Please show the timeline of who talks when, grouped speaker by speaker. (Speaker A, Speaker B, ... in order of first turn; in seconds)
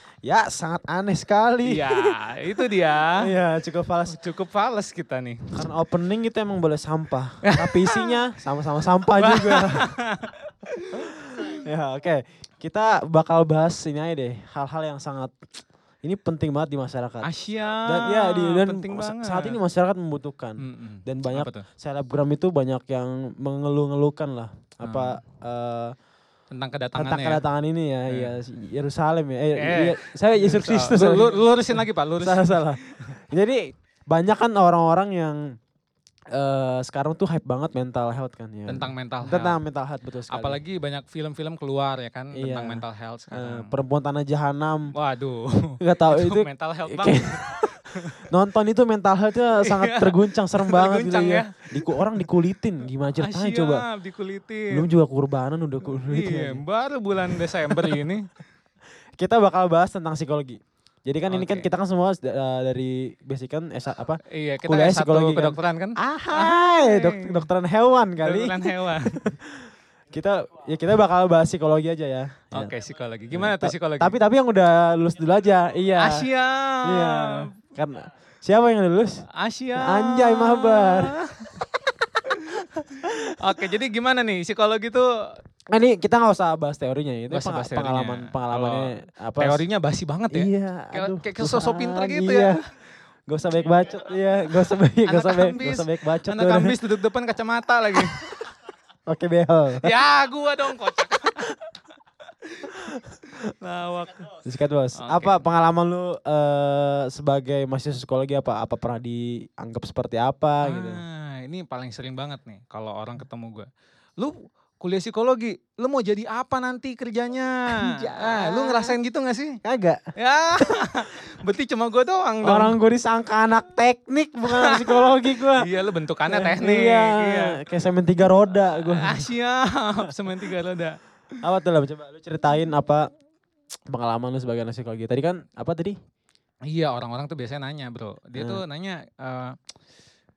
Speaker A: 0.2-2.1, 3.1-4.2, 5.5-9.9, 10.9-15.3, 16.0-17.3, 17.8-25.9, 26.9-35.4, 36.3-40.6, 42.3-44.9, 45.8-47.6, 48.3-53.8, 54.7-56.6, 57.2-58.0, 59.2-72.7, 73.3-76.3, 76.8-81.2, 85.7-89.6, 90.3-92.6, 93.3-96.8, 98.0-98.4, 99.1-99.9, 104.4-111.0, 117.7-119.0, 119.6-120.0, 122.4-125.7, 126.3-129.3, 131.4-133.1, 133.9-136.0, 138.3-138.6
Speaker B: 1.6-3.2, 4.1-5.6, 7.5-8.2, 9.2-11.1, 17.2-19.6, 20.6-21.6, 24.8-25.2, 26.5-27.4, 28.1-28.4, 29.6-33.1, 38.7-39.6, 40.3-43.8, 44.9-48.1, 49.6-52.0, 53.2-54.9, 55.9-58.3, 61.3-61.7, 64.3-67.5, 68.2-69.2, 72.5-74.2, 76.0-77.5, 79.4-81.5, 82.3-85.1, 87.3-92.6, 95.0-98.5, 99.8-101.5, 102.4-104.3, 105.0-105.4, 110.6-113.7, 114.2-119.6, 120.2-122.8, 124.5-127.6, 128.8-131.0, 136.7-139.6